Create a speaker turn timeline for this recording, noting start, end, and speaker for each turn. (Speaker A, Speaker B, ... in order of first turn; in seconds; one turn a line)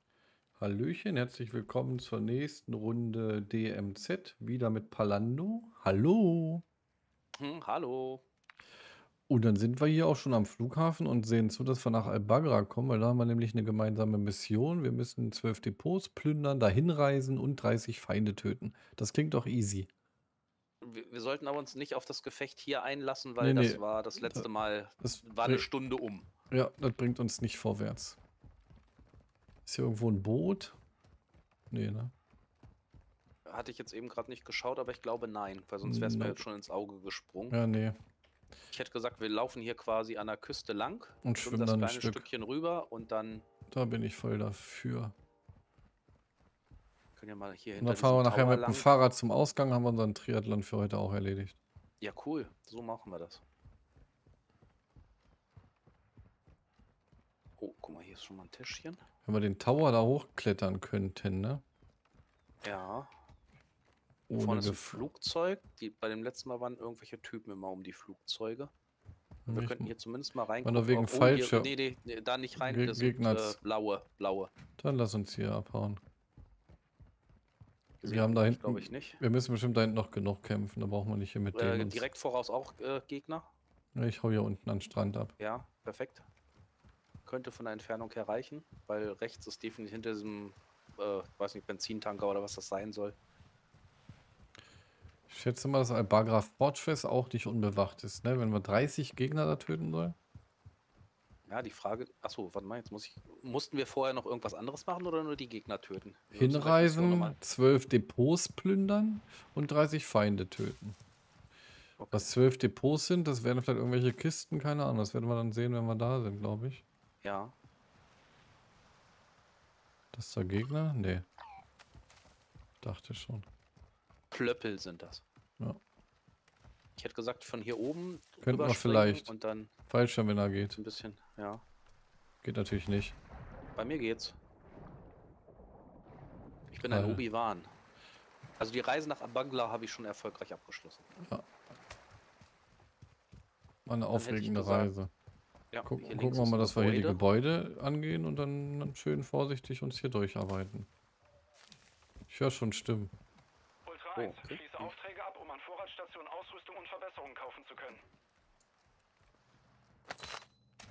Speaker A: 0.6-6.6
Speaker B: 7.4-8.2
Speaker A: 9.3-19.9
Speaker B: 20.8-26.3
Speaker A: 23.4-24.5
Speaker A: 25.0-25.6
Speaker A: 26.5-28.2
Speaker A: 29.7-30.8
Speaker A: 31.7-32.1
Speaker B: 33.5-37.6
Speaker A: 35.8-36.4
Speaker A: 37.5-38.0
Speaker B: 38.7-43.5
Speaker A: 41.2-42.3
Speaker A: 43.7-45.1
Speaker B: 47.2-48.9
Speaker A: 47.8-51.6
Speaker B: 52.0-53.4
Speaker B: 57.6-59.0
Speaker A: 59.2-61.6
Speaker B: 62.6-63.1
Speaker A: 64.3-65.0
Speaker B: 64.3-68.7
Speaker A: 69.5-69.9
Speaker B: 69.5-74.5
Speaker A: 70.6-71.7
Speaker A: 72.6-73.6
Speaker A: 74.8-76.0
Speaker B: 78.0-79.2
Speaker A: 78.0-82.0
Speaker B: 81.5-83.5
Speaker A: 84.0-85.3
Speaker B: 85.4-86.2
Speaker B: 87.3-93.2
Speaker A: 95.3-100.2
Speaker B: 101.5-107.4
Speaker A: 106.3-111.0
Speaker B: 112.0-112.3
Speaker A: 112.1-116.8
Speaker B: 117.2-117.5
Speaker A: 120.1-121.3
Speaker A: 122.8-123.5
Speaker B: 124.3-125.2
Speaker B: 127.0-129.7
Speaker A: 128.4-129.3
Speaker A: 129.9-130.8
Speaker B: 130.8-131.6
Speaker A: 132.4-133.2
Speaker B: 133.8-134.4
Speaker B: 136.7-137.7
Speaker A: 136.8-137.2
Speaker B: 138.6-141.1
Speaker A: 143.9-145.1
Speaker B: 144.1-144.9
Speaker B: 145.7-147.2
Speaker A: 145.8-150.9
Speaker A: 152.3-153.1
Speaker C: 153.9-158.0
Speaker B: 154.2-154.9